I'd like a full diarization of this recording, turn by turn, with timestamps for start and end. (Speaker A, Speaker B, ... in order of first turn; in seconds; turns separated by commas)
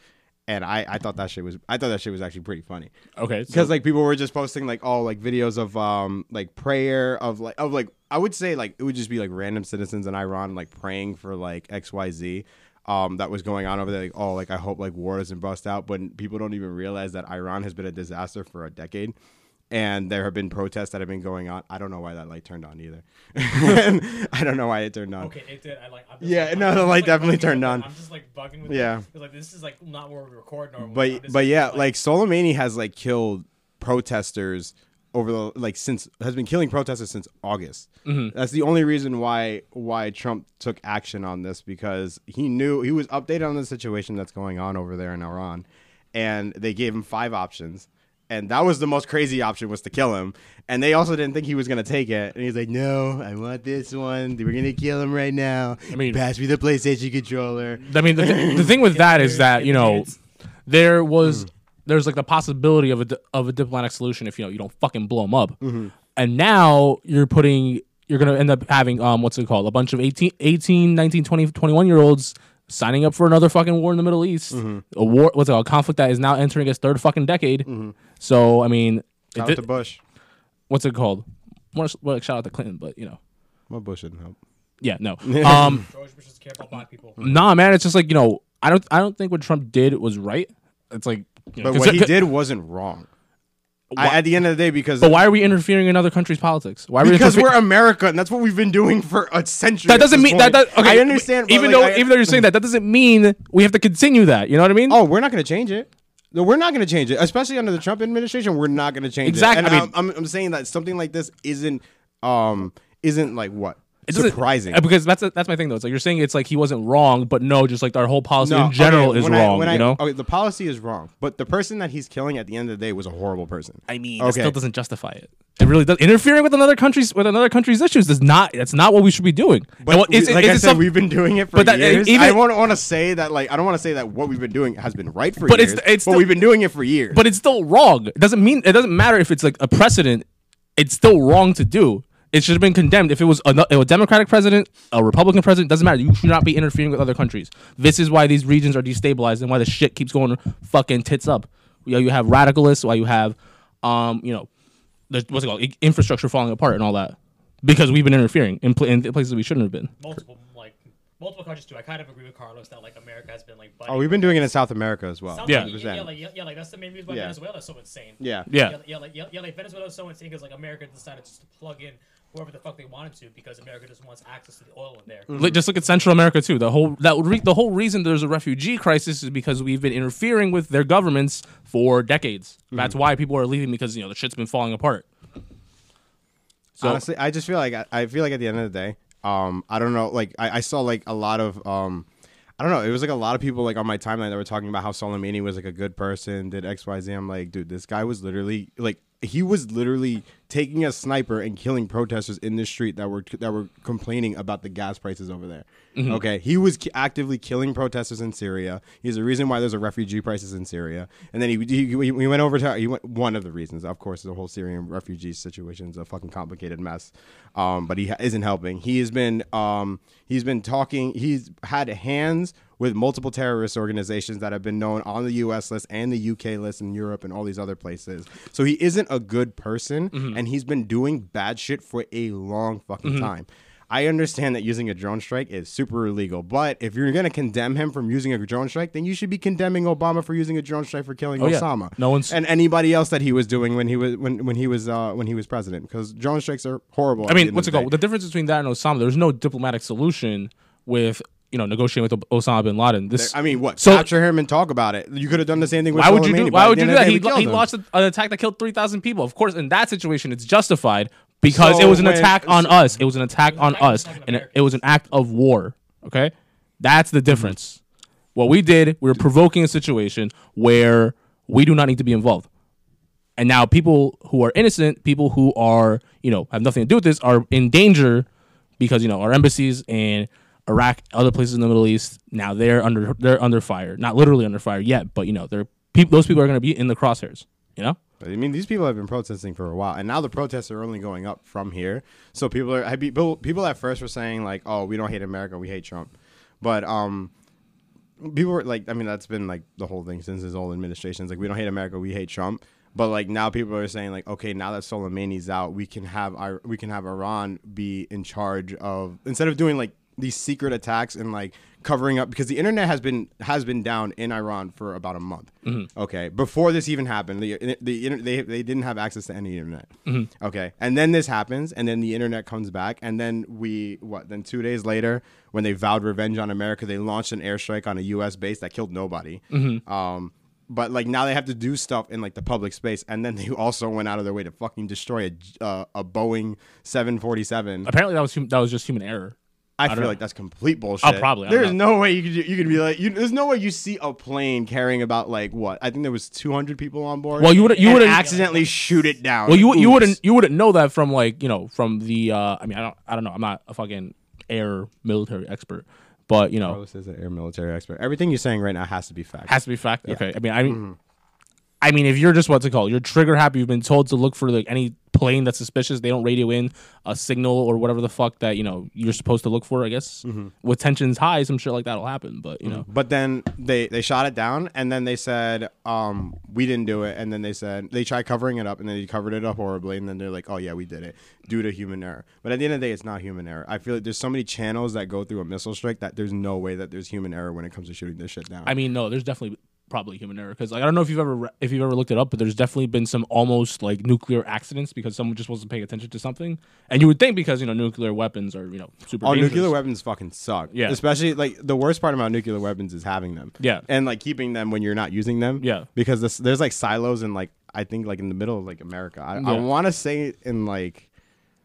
Speaker A: 0.5-2.9, Speaker B: 3.2-3.8, Speaker A: 3.5-19.2, Speaker A: 19.7-25.3, Speaker C: 25.2-31.9, Speaker A: 26.2-27.9, Speaker A: 28.7-29.0, Speaker A: 30.8-58.8, Speaker B: 38.1-38.3, Speaker B: 55.9-56.2, Speaker B: 57.9-60.1, Speaker C: 58.8-60.2, Speaker B: 60.7-65.6, Speaker A: 65.6-65.9, Speaker B: 66.1-77.7, Speaker A: 74.5-74.8, Speaker A: 77.7-78.0, Speaker B: 78.2-79.7, Speaker A: 79.3-80.0, Speaker B: 80.7-83.2, Speaker A: 83.7-84.4, Speaker B: 84.8-85.8, Speaker A: 85.2-85.8, Speaker C: 85.8-87.2, Speaker B: 87.2-92.3, Speaker A: 91.6-93.1, Speaker B: 93.9-94.2, Speaker A: 94.0-95.3, Speaker B: 95.0-97.6, Speaker A: 97.0-102.5, Speaker B: 99.9-105.0, Speaker A: 104.9-114.8, Speaker B: 109.2-109.9, Speaker B: 114.1-120.0, Speaker A: 118.4-124.5, Speaker B: 123.9-130.9, Speaker A: 129.8-137.2, Speaker B: 131.5-132.4, Speaker B: 135.5-136.4, Speaker B: 137.1-154.5, Speaker B: 155.1-159.9, Speaker C: 160.0-164.5, Speaker A: 163.9-166.1, Speaker C: 165.3-175.3, Speaker B: 165.4-165.7, Speaker A: 167.1-167.4, Speaker A: 168.2-168.5, Speaker B: 168.5-168.8, Speaker A: 175.3-175.6, Speaker B: 175.3-185.1, Speaker B: 186.8-187.0, Speaker A: 186.8-192.1, Speaker A: 192.6-247.9, Speaker B: 206.0-206.2, Speaker B: 230.1-230.4, Speaker B: 233.0-233.3, Speaker B: 241.4-242.4, Speaker B: 247.3-254.1, Speaker A: 253.2-257.7, Speaker B: 255.9-267.8, Speaker A: 261.5-262.9, Speaker C: 263.4-264.8, Speaker B: 268.4-272.5, Speaker B: 273.4-278.3, Speaker B: 278.8-288.0, Speaker A: 288.2-297.3, Speaker A: 298.2-337.9, Speaker B: 329.5-329.8, Speaker B: 337.9-339.4, Speaker A: 339.8-350.2, Speaker B: 339.9-340.1, Speaker B: 341.0-341.8, Speaker B: 347.4-348.2, Speaker C: 347.4-349.2, Speaker B: 349.5-356.8, Speaker A: 356.6-361.0, Speaker B: 359.5-360.8, Speaker B: 361.8-372.9, Speaker A: 370.2-370.5, Speaker A: 372.6-388.7, Speaker B: 388.7-399.8, Speaker A: 399.2-411.1, Speaker B: 400.7-401.0, Speaker B: 403.6-403.9, Speaker B: 405.6-405.9, Speaker B: 409.4-409.7